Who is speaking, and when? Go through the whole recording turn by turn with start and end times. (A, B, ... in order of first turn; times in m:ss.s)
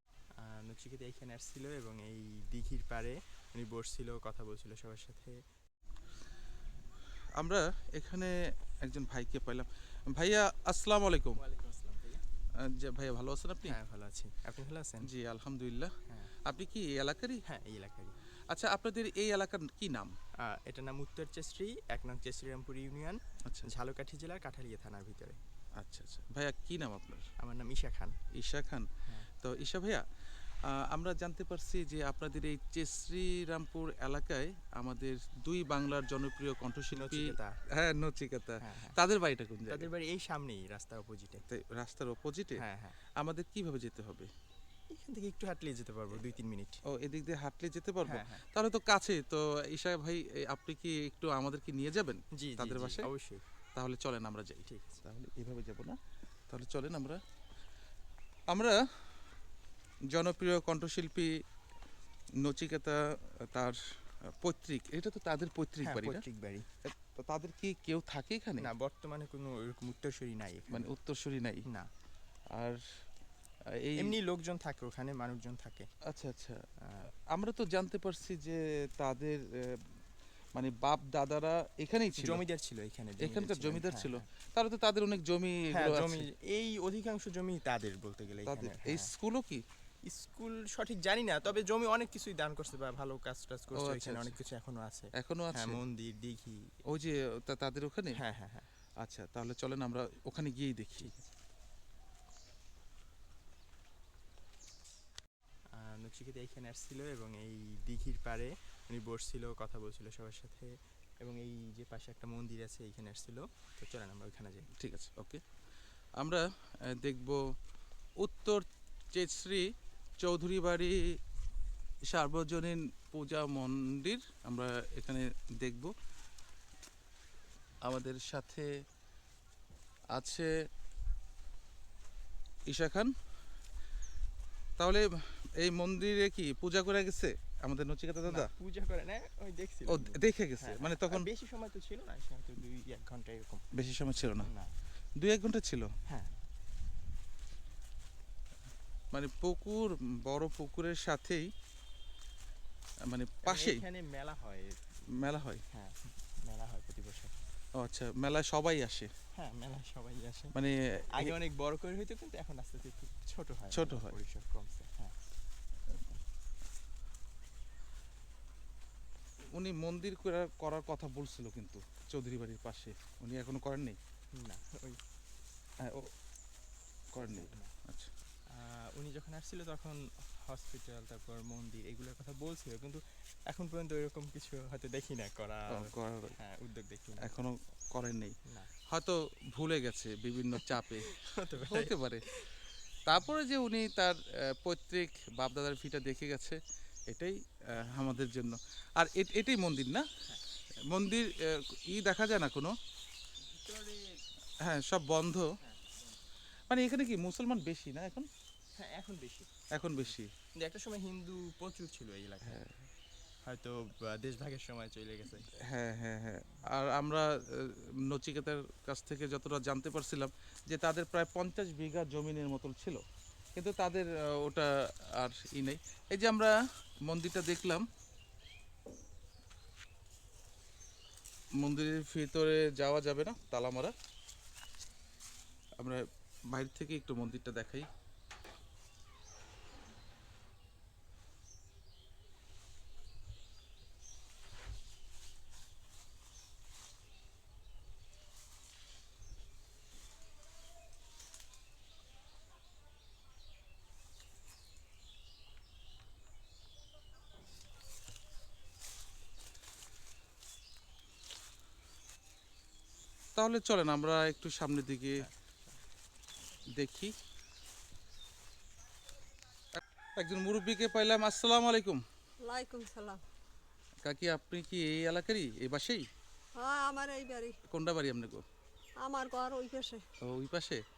0:00.4-0:05.4 A
0:07.4-0:11.4 B
0:11.4-0:12.2 A
0:12.6-0:13.8 B
0:13.6-0:15.1 A
0:15.0-0:17.4 B
0:17.5-0:18.2 A
0:18.5-0:20.2 B
0:20.4-0:25.4 A
0:23.4-0:23.7 B
0:25.8-0:27.3 B
0:27.4-0:28.2 A
0:28.3-0:39.9 B
0:36.9-0:37.6 A
0:38.6-0:39.0 A
0:39.7-0:41.4 A
0:41.5-0:42.6 B
0:42.6-0:43.0 A
0:43.2-0:44.3 B
0:44.9-0:46.8 A
0:46.9-0:53.1 B
0:48.0-0:48.4 A
0:52.4-0:53.4 A
0:53.8-0:56.0 B
0:54.7-0:55.0 A
0:56.5-0:57.2 B
0:58.5-0:58.8 B
1:00.1-1:01.3 B
1:02.4-1:06.2 B
1:05.8-1:06.7 A
1:06.8-1:08.7 B
1:08.6-1:10.9 A
1:10.7-1:11.7 B
1:12.5-1:12.8 B
1:13.7-1:14.2 B
1:14.0-1:15.9 A
1:16.0-1:16.6 B
1:16.8-1:17.1 A
1:17.3-1:20.0 B
1:20.6-1:22.4 B
1:22.2-1:24.3 A
1:23.2-1:26.3 B
1:25.7-1:29.1 A
1:28.5-1:29.6 B
1:30.1-1:36.7 A
1:33.7-1:34.4 B
1:35.2-1:35.8 B
1:36.9-1:38.2 B
1:38.2-1:38.7 A
1:39.0-1:41.2 B
1:45.7-1:54.7 A
1:54.8-1:55.4 B
1:56.2-1:57.4 B
1:58.2-2:01.0 B
2:02.0-2:05.9 B
2:07.8-2:08.7 B
2:10.1-2:10.5 B
2:12.7-2:13.1 B
2:14.8-2:18.5 B
2:18.3-2:23.6 A
2:19.9-2:21.3 B
2:23.7-2:24.5 B
2:24.4-2:24.7 A
2:25.2-2:25.9 B
2:26.1-2:26.3 A
2:29.1-2:31.5 B
2:33.1-2:33.8 B
2:33.4-2:35.0 A
2:35.1-2:35.6 B
2:35.7-2:37.4 A
2:37.8-2:39.1 B
2:39.4-2:40.6 A
2:40.5-2:41.4 B
2:41.1-2:45.2 A
2:43.7-2:44.2 B
2:49.6-2:54.0 B
2:54.3-2:55.0 A
2:55.8-2:56.1 B
2:57.1-2:58.1 B
2:57.2-2:57.7 A
2:58.5-3:07.4 A
3:05.7-3:06.4 B
3:07.2-3:12.3 B
3:08.5-3:08.7 A
3:10.6-3:12.0 A
3:13.1-3:20.1 B
3:20.9-3:22.7 B
3:23.5-3:24.2 A
3:24.6-3:25.5 B
3:26.7-3:28.3 B
3:28.8-3:29.5 A
3:29.7-3:30.3 B
3:30.6-3:32.7 A
3:32.5-3:32.8 B
3:33.4-3:35.5 A
3:35.6-3:43.0 B
3:43.6-3:47.9 B
3:51.6-3:53.9 B
3:55.8-3:57.9 B
4:23.4-4:25.3 B
4:26.8-4:27.1 B
4:30.2-4:32.0 B
4:32.4-4:33.2 C
4:34.0-4:36.1 B
4:36.6-4:37.6 C
4:37.7-4:38.4 B
4:39.0-4:40.0 C
4:40.2-4:40.8 B